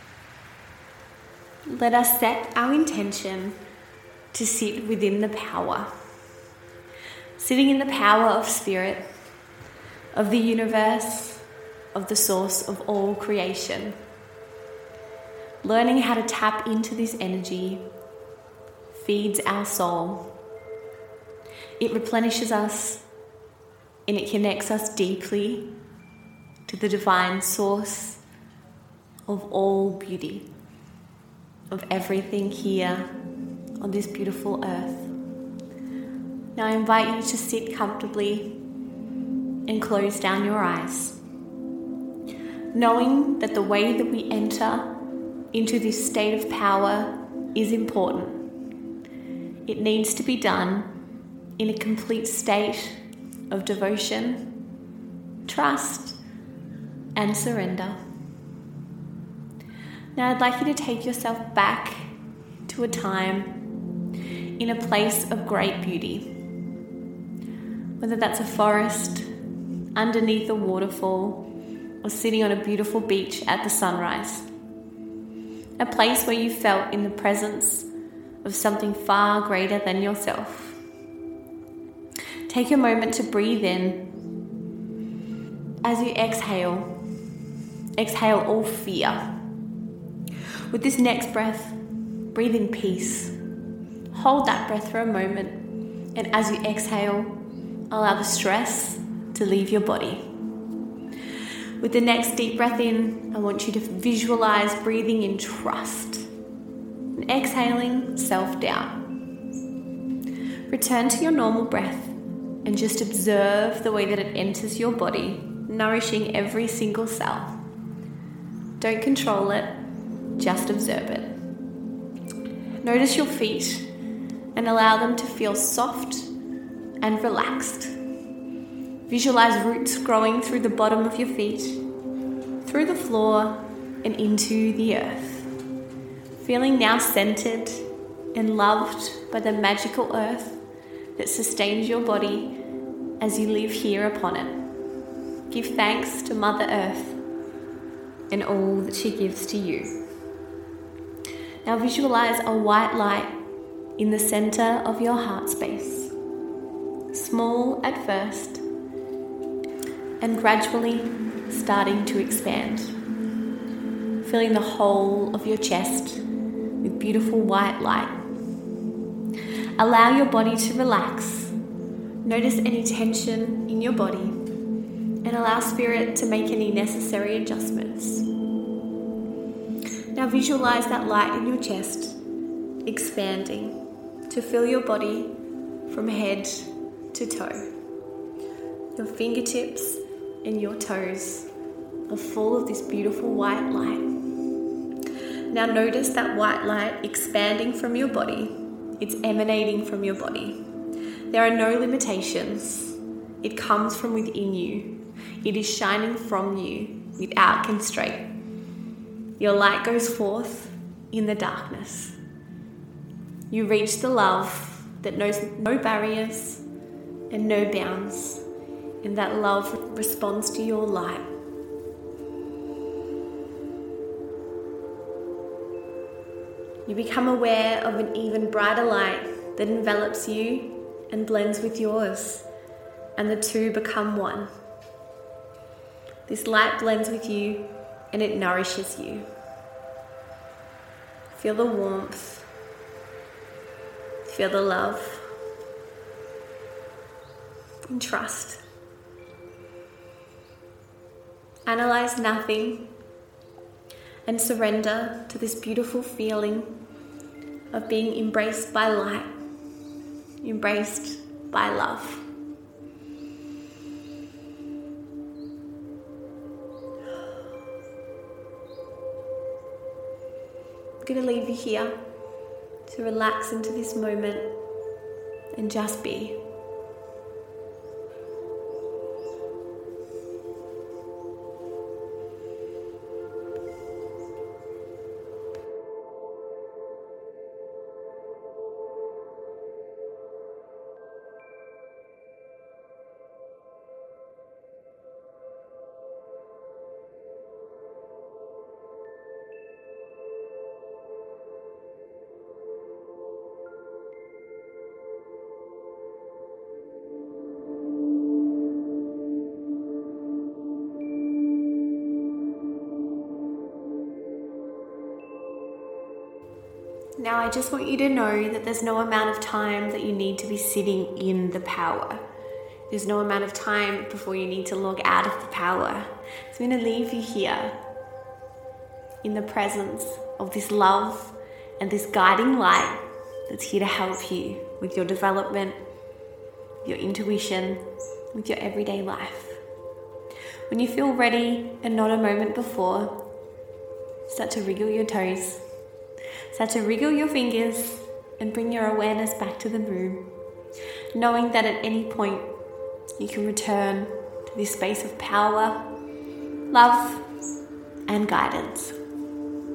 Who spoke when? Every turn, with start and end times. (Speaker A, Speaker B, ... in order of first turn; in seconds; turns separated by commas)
Speaker A: 1.7-3.6, Speaker A: 4.3-6.0, Speaker A: 7.4-9.1, Speaker A: 10.1-14.0, Speaker A: 15.6-17.9, Speaker A: 18.9-20.4, Speaker A: 21.8-23.1, Speaker A: 24.1-25.8, Speaker A: 26.7-28.2, Speaker A: 29.3-30.5, Speaker A: 31.7-33.1, Speaker A: 33.8-35.1, Speaker A: 36.5-38.6, Speaker A: 39.7-41.2, Speaker A: 42.7-44.9, Speaker A: 45.5-48.5, Speaker A: 49.6-50.9, Speaker A: 51.6-54.5, Speaker A: 55.5-56.2, Speaker A: 57.1-58.0, Speaker A: 60.1-63.6, Speaker A: 64.6-66.5, Speaker A: 68.0-69.3, Speaker A: 69.9-74.5, Speaker A: 75.8-77.9, Speaker A: 78.4-80.8, Speaker A: 82.5-84.1, Speaker A: 85.8-87.0, Speaker A: 88.0-89.3, Speaker A: 90.7-91.8, Speaker A: 92.3-93.4, Speaker A: 94.1-100.3, Speaker A: 101.8-106.3, Speaker A: 107.1-109.0, Speaker A: 110.7-117.6, Speaker A: 118.8-119.8, Speaker A: 120.4-121.4, Speaker A: 122.8-123.9, Speaker A: 124.5-126.3, Speaker A: 127.0-128.0, Speaker A: 129.1-131.8, Speaker A: 132.6-135.6, Speaker A: 136.4-140.6, Speaker A: 141.2-142.6, Speaker A: 143.2-144.7, Speaker A: 145.5-147.2, Speaker A: 148.3-150.0, Speaker A: 151.6-153.4, Speaker A: 154.0-156.1, Speaker A: 157.1-158.6, Speaker A: 160.2-163.0, Speaker A: 164.2-166.2, Speaker A: 166.8-168.2, Speaker A: 169.8-171.6, Speaker A: 172.2-174.4, Speaker A: 175.2-178.3, Speaker A: 180.1-182.2, Speaker A: 182.8-187.7, Speaker A: 188.9-191.5, Speaker A: 192.1-194.2, Speaker A: 195.5-200.8, Speaker A: 201.3-208.3, Speaker A: 209.4-212.2, Speaker A: 213.5-216.7, Speaker A: 217.3-218.4, Speaker A: 219.0-221.3, Speaker A: 226.8-232.5, Speaker A: 233.2-234.5, Speaker A: 236.3-239.3, Speaker A: 241.3-242.5, Speaker A: 244.2-245.3, Speaker A: 247.9-248.6, Speaker A: 251.7-252.9, Speaker A: 254.3-256.8, Speaker A: 257.7-259.3, Speaker A: 260.4-262.3, Speaker A: 271.0-272.0, Speaker A: 272.9-274.5, Speaker A: 275.5-276.4, Speaker A: 317.2-322.2, Speaker A: 322.9-327.8, Speaker A: 329.2-335.8, Speaker A: 336.8-339.6, Speaker A: 340.7-343.2, Speaker A: 344.3-345.6, Speaker A: 346.5-350.4, Speaker A: 351.1-352.5, Speaker A: 353.2-355.9, Speaker A: 356.7-357.3, Speaker A: 358.1-359.0